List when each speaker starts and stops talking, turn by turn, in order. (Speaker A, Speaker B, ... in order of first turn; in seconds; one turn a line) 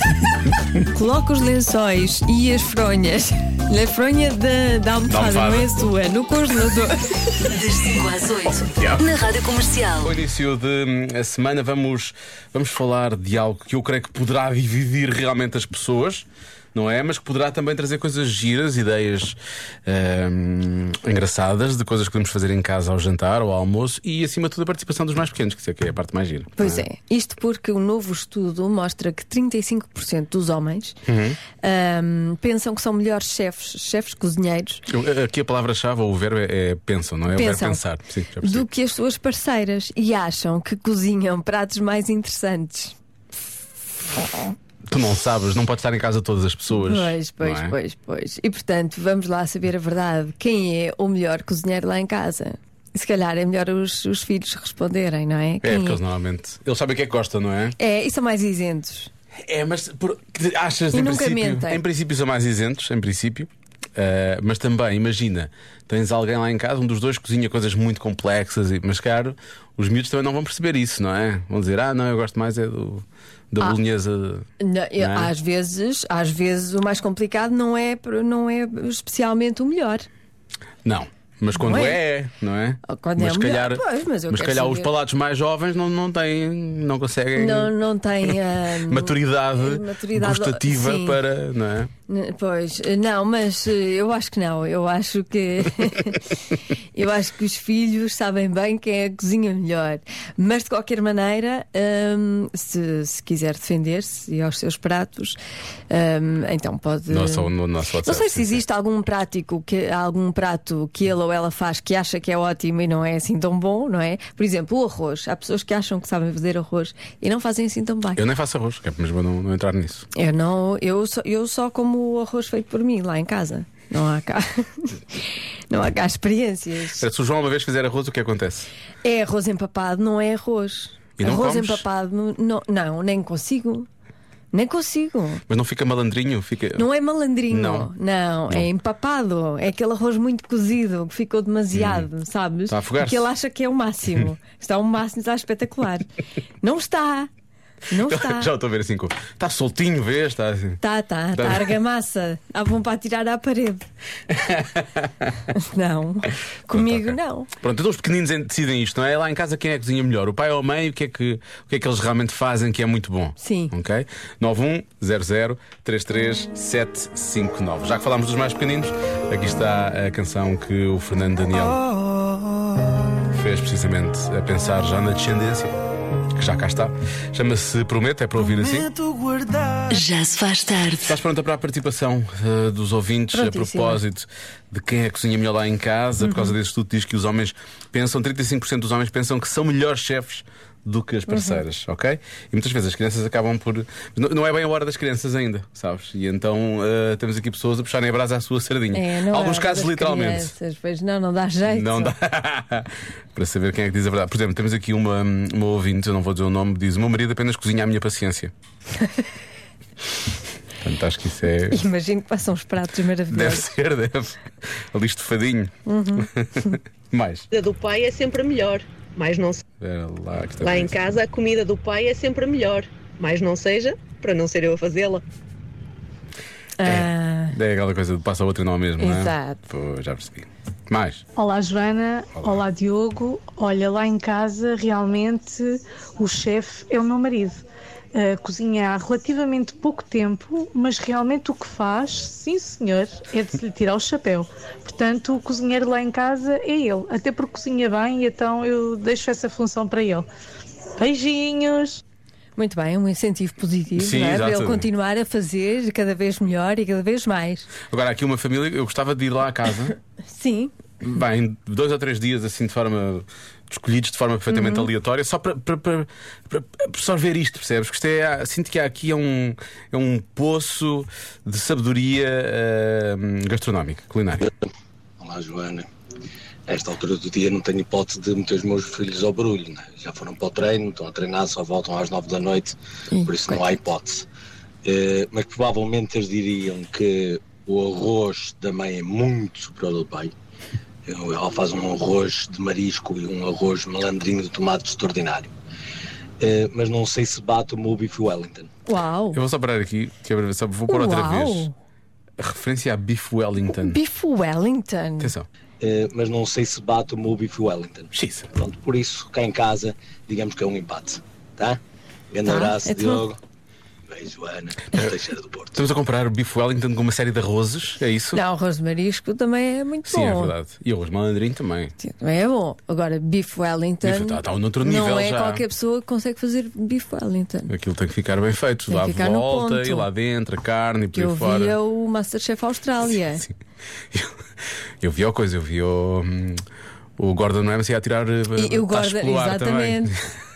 Speaker A: 0.9-7.1
Speaker B: 5.1-5.7
Speaker C: 7.5-10.1
Speaker B: 8.8-9.1
Speaker B: 10.0-26.9
Speaker A: 26.6-31.0
Speaker B: 31.1-31.4
Speaker A: 31.6-34.9
Speaker B: 34.9-38.7
Speaker A: 37.3-37.8
Speaker A: 38.4-43.0
Speaker B: 44.9-47.8
Speaker A: 46.7-56.0
Speaker B: 55.6-57.8
Speaker A: 57.8-59.1
Speaker B: 59.4-74.5
Speaker A: 60.9-61.8
Speaker A: 74.6-80.1
Speaker B: 75.0-75.3
Speaker B: 80.8-87.7
Speaker A: 81.5-82.0
Speaker A: 82.8-84.9
Speaker A: 87.4-91.2
Speaker B: 88.3-91.9
Speaker A: 92.1-96.3
Speaker A: 97.0-105.4
Speaker A: 105.9-107.5
Speaker B: 107.1-108.6
Speaker A: 108.0-118.2
Speaker B: 118.2-120.1
Speaker A: 120.1-127.0
Speaker B: 127.0-128.7
Speaker A: 129.0-133.9
Speaker B: 131.2-131.8
Speaker A: 134.5-135.4
Speaker B: 135.5-136.9
Speaker A: 136.8-147.3
Speaker B: 137.5-137.9
Speaker B: 141.7-142.1
Speaker B: 142.7-143.3
Speaker A: 147.9-148.5
Speaker B: 148.0-150.8
Speaker A: 150.8-153.9
Speaker B: 151.3-151.8
Speaker B: 154.3-155.3
Speaker A: 155.5-157.5
Speaker B: 156.7-171.9
Speaker A: 163.4-163.7
Speaker B: 173.3-175.7
Speaker B: 176.4-178.9
Speaker C: 179.9-181.2
Speaker B: 181.1-200.5
Speaker A: 183.3-184.0
Speaker A: 186.2-186.5
Speaker A: 191.3-191.6
Speaker A: 198.9-202.1
Speaker B: 201.7-208.5
Speaker A: 209.0-209.2
Speaker B: 210.8-211.8
Speaker A: 211.7-213.7
Speaker B: 213.3-217.5
Speaker A: 215.9-216.3
Speaker D: 217.5-219.6
Speaker B: 219.8-221.0
Speaker D: 220.6-225.2
Speaker A: 226.8-227.6
Speaker B: 226.8-231.2
Speaker A: 229.0-229.6
Speaker E: 231.4-250.3
Speaker E: 251.0-252.0
Speaker A: 252.6-257.7
Speaker B: 254.0-254.9
Speaker B: 257.9-259.9
Speaker A: 260.3-260.7
Speaker B: 261.0-274.5
Speaker A: 264.5-264.9
Speaker F: 275.2-275.9
Speaker F: 276.7-284.3
Speaker A: 283.1-283.8
Speaker F: 284.8-290.3
Speaker F: 291.1-295.5
Speaker F: 296.4-298.7
Speaker A: 298.9-299.4
Speaker B: 299.3-301.7
Speaker A: 300.9-301.7
Speaker B: 302.4-304.0
Speaker A: 303.7-305.3
Speaker B: 305.2-305.5
Speaker F: 305.8-311.8
Speaker B: 308.1-308.5
Speaker F: 312.3-313.4
Speaker A: 312.5-313.2
Speaker F: 314.1-315.8
Speaker B: 315.7-318.4
Speaker A: 318.3-320.5
Speaker B: 320.1-321.9
Speaker A: 322.0-327.7
Speaker B: 324.0-325.6
Speaker B: 327.7-331.8
Speaker A: 328.9-330.1
Speaker A: 331.1-333.4
Speaker B: 334.1-334.4
Speaker B: 335.0-336.6
Speaker B: 337.2-340.2
Speaker A: 338.6-340.1